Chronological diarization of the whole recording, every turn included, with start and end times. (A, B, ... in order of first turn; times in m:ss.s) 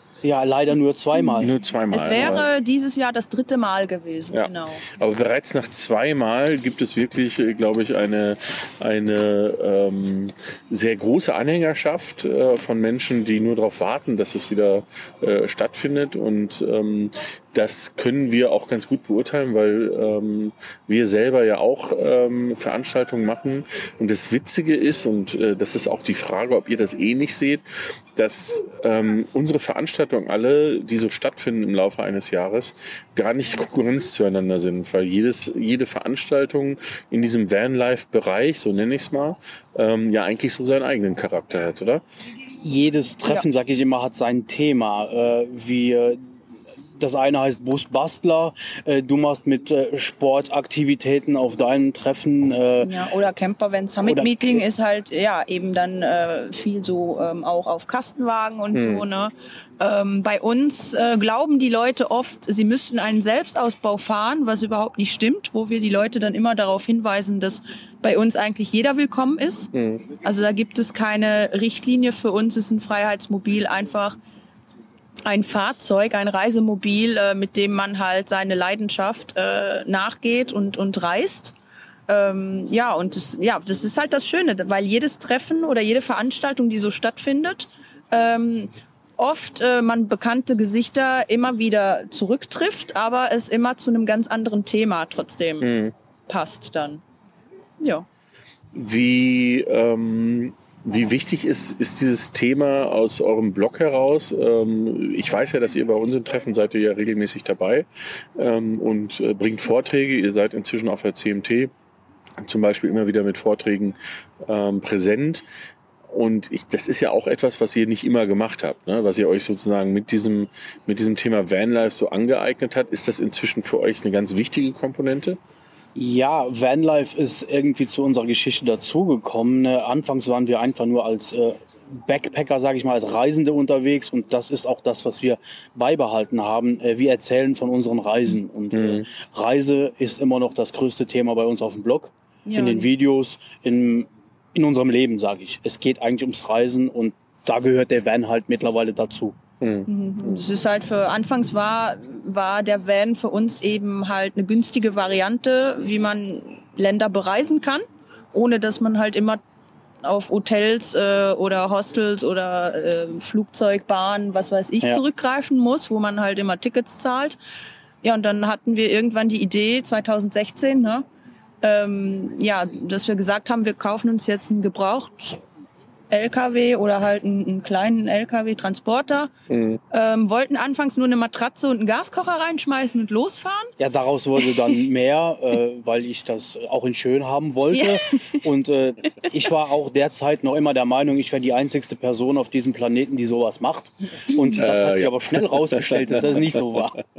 0:00.2-0:01.5 A
0:01.1-0:04.8 B
0:01.4-0:02.5 C
0:04.3-0:42.0 C
0:42.6-0:46.2 A
0:47.0-0:52.9 A
0:52.8-1:14.2 B
0:54.0-0:54.6 A
0:58.7-0:59.0 C
1:09.7-1:10.0 C
1:15.3-1:21.6 B
1:22.1-1:35.7 B
1:35.6-1:35.9 C
1:36.3-1:37.0 B
1:37.8-1:38.1 B
1:38.7-1:51.7 C
1:52.4-1:55.4 C
1:56.1-2:05.4 C
2:06.0-2:29.4 A
2:18.7-2:19.1 C
2:22.5-2:22.9 B
2:29.6-2:30.4 C
2:29.9-2:39.4 B
2:40.0-2:47.4 B
2:48.0-2:51.0 B
2:51.6-2:55.4 B
2:56.1-2:59.3 B
2:59.5-2:59.8 C
2:59.9-3:03.7 B
3:03.8-3:17.0 A
3:04.4-3:04.7 B
3:07.7-3:08.4 B
3:14.4-3:14.6 B
3:14.6-3:16.2 C